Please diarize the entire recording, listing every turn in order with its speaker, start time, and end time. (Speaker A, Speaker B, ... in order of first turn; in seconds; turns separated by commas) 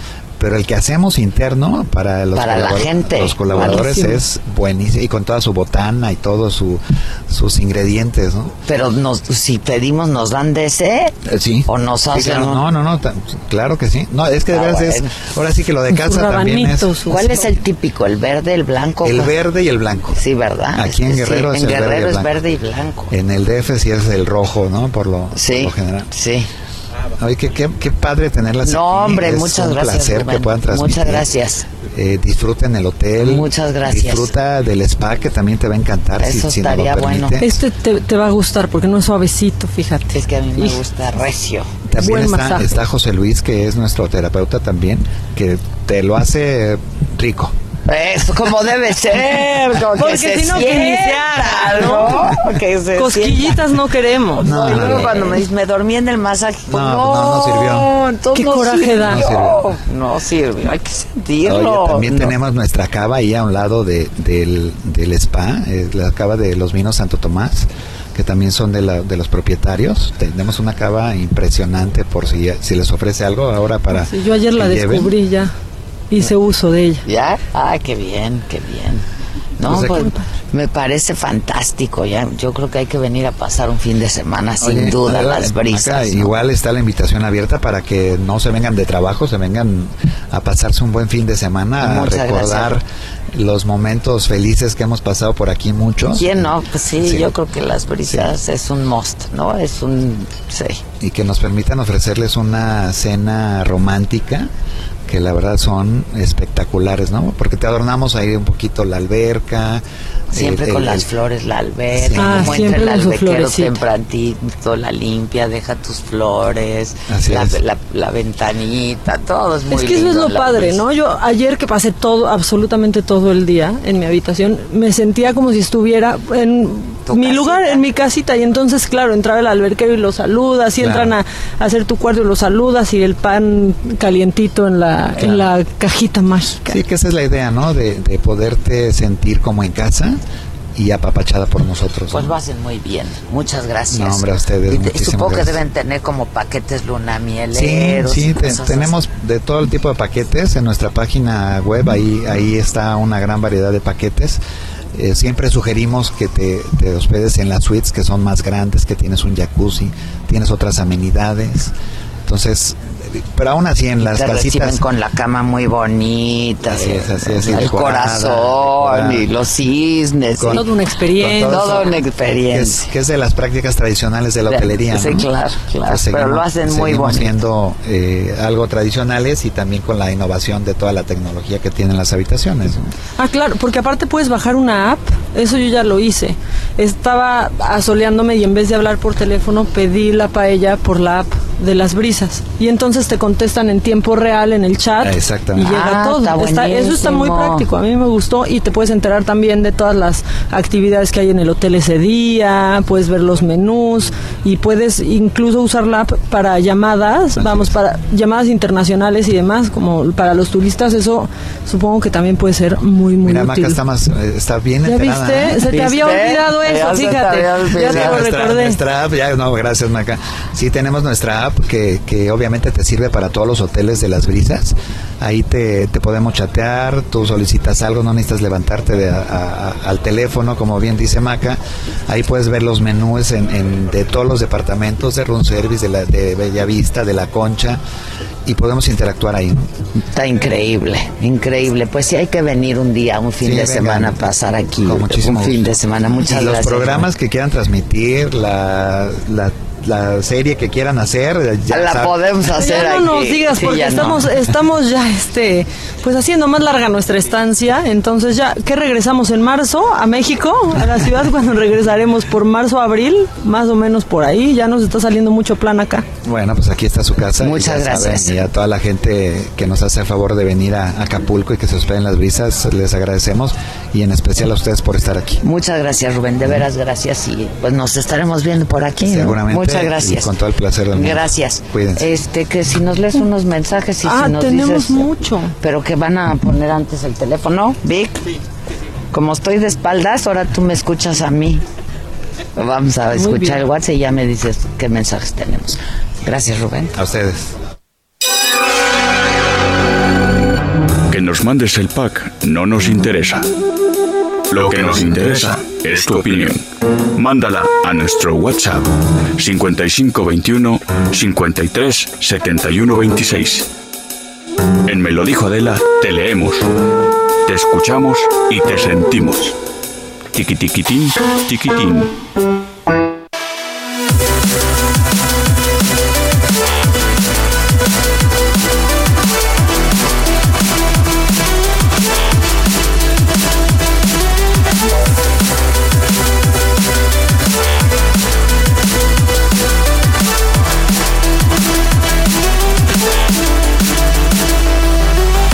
Speaker A: 0.4-8.6, Speaker B: 2.4-3.9, Speaker C: 3.5-4.2, Speaker B: 8.7-12.7, Speaker A: 11.3-16.9, Speaker B: 14.5-15.1, Speaker C: 15.9-17.5, Speaker B: 17.1-19.4, Speaker A: 19.0-20.2, Speaker B: 20.1-23.1, Speaker A: 20.7-22.3, Speaker A: 23.1-26.1, Speaker B: 25.4-26.5, Speaker A: 27.2-31.3, Speaker B: 28.6-31.7, Speaker A: 31.9-37.5, Speaker B: 33.2-34.3, Speaker B: 36.2-37.4, Speaker C: 37.4-40.1, Speaker B: 40.1-41.7, Speaker A: 41.9-47.5, Speaker C: 42.0-42.7, Speaker B: 47.9-53.6, Speaker C: 50.0-52.3, Speaker C: 53.0-54.5, Speaker B: 54.4-62.3, Speaker A: 54.4-55.4, Speaker A: 56.7-57.9, Speaker C: 58.3-59.2, Speaker A: 59.0-59.7, Speaker A: 61.4-75.1, Speaker C: 73.9-75.5, Speaker C: 76.1-77.0, Speaker B: 77.0-79.0, Speaker B: 79.6-86.3, Speaker A: 79.7-80.1, Speaker C: 79.7-80.2, Speaker A: 84.6-97.3, Speaker B: 91.8-92.8, Speaker B: 96.1-100.8, Speaker A: 98.1-98.3, Speaker A: 101.0-104.5, Speaker A: 105.1-111.1, Speaker B: 110.3-120.8, Speaker A: 111.9-112.8, Speaker C: 112.2-113.8, Speaker A: 117.1-117.6, Speaker C: 119.7-136.8, Speaker B: 127.1-127.8, Speaker A: 130.8-131.2, Speaker A: 135.2-135.5, Speaker A: 136.7-140.2, Speaker A: 140.8-142.3, Speaker B: 142.1-149.0, Speaker A: 143.9-145.6, Speaker A: 147.5-154.4, Speaker A: 154.9-161.7, Speaker A: 162.3-164.8, Speaker B: 164.0-170.7, Speaker A: 166.7-169.3, Speaker A: 170.4-171.9, Speaker C: 170.5-172.0, Speaker B: 171.4-172.9, Speaker A: 172.5-175.3, Speaker B: 174.5-177.4, Speaker A: 175.8-182.9, Speaker C: 183.2-213.8, Speaker A: 195.0-195.8, Speaker B: 195.6-197.7, Speaker A: 207.4-207.7, Speaker A: 213.2-216.2, Speaker C: 214.9-218.8, Speaker B: 215.7-218.2, Speaker A: 217.8-237.8, Speaker A: 238.5-239.7, Speaker B: 240.1-247.1, Speaker A: 243.4-244.2, Speaker A: 244.8-252.2, Speaker B: 251.7-254.3, Speaker C: 252.5-266.1, Speaker A: 266.2-275.4, Speaker B: 267.4-268.5, Speaker B: 275.4-280.4, Speaker A: 279.0-282.1, Speaker B: 280.9-285.1, Speaker C: 284.1-285.5, Speaker B: 285.6-288.2, Speaker B: 289.1-291.6, Speaker B: 292.6-296.9, Speaker C: 293.1-293.6, Speaker A: 297.0-297.6, Speaker D: 301.1-303.5, Speaker D: 304.5-306.6, Speaker D: 307.2-313.7, Speaker D: 314.9-316.7, Speaker D: 317.5-319.6, Speaker D: 320.3-322.1